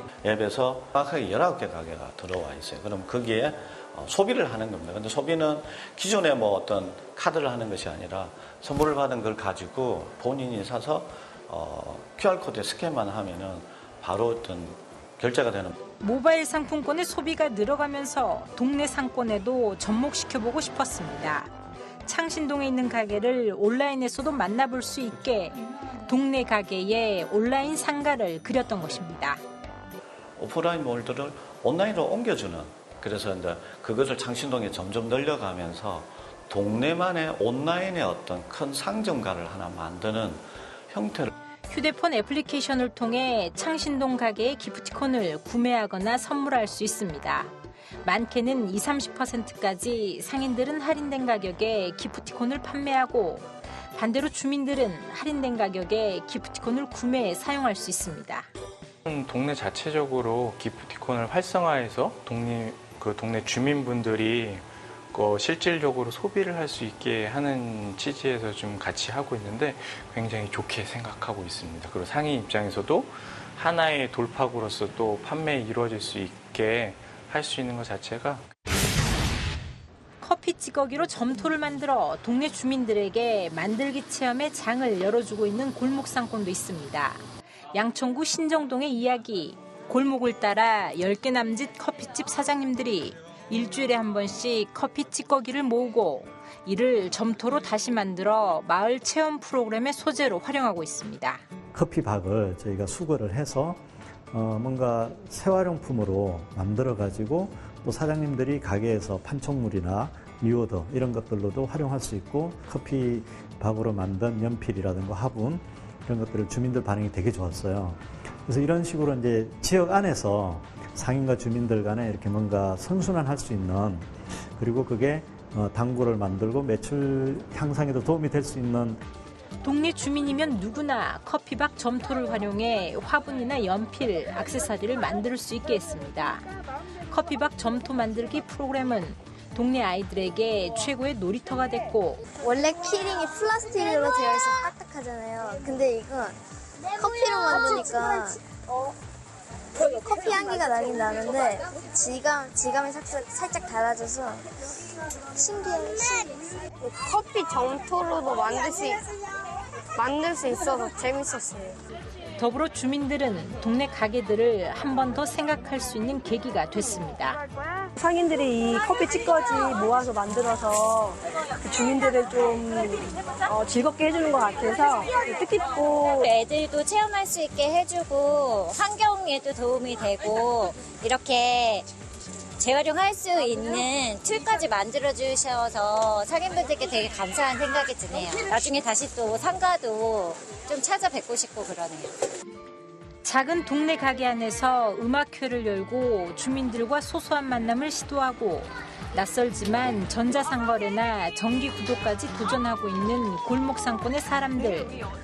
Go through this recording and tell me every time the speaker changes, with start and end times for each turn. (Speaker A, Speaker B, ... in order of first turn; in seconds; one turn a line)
Speaker A: 0.2-15.8
Speaker B: 16.0-21.5
Speaker B: 22.1-29.4
Speaker A: 30.4-41.3
Speaker B: 41.7-47.5
Speaker B: 48.0-58.5
Speaker C: 59.1-78.5
Speaker B: 80.2-87.2
Speaker B: 87.7-101.4
Speaker D: 101.7-129.0
Speaker B: 129.6-136.4
Speaker B: 137.1-142.2
Speaker E: 142.4-146.4
Speaker E: 146.9-148.4
Speaker E: 149.8-154.5
Speaker E: 155.4-156.4
Speaker F: 156.8-159.0
Speaker F: 160.0-161.7
Speaker B: 162.4-167.4
Speaker G: 168.0-176.2
Speaker H: 176.2-181.9
Speaker H: 182.6-192.1
Speaker B: 193.2-205.0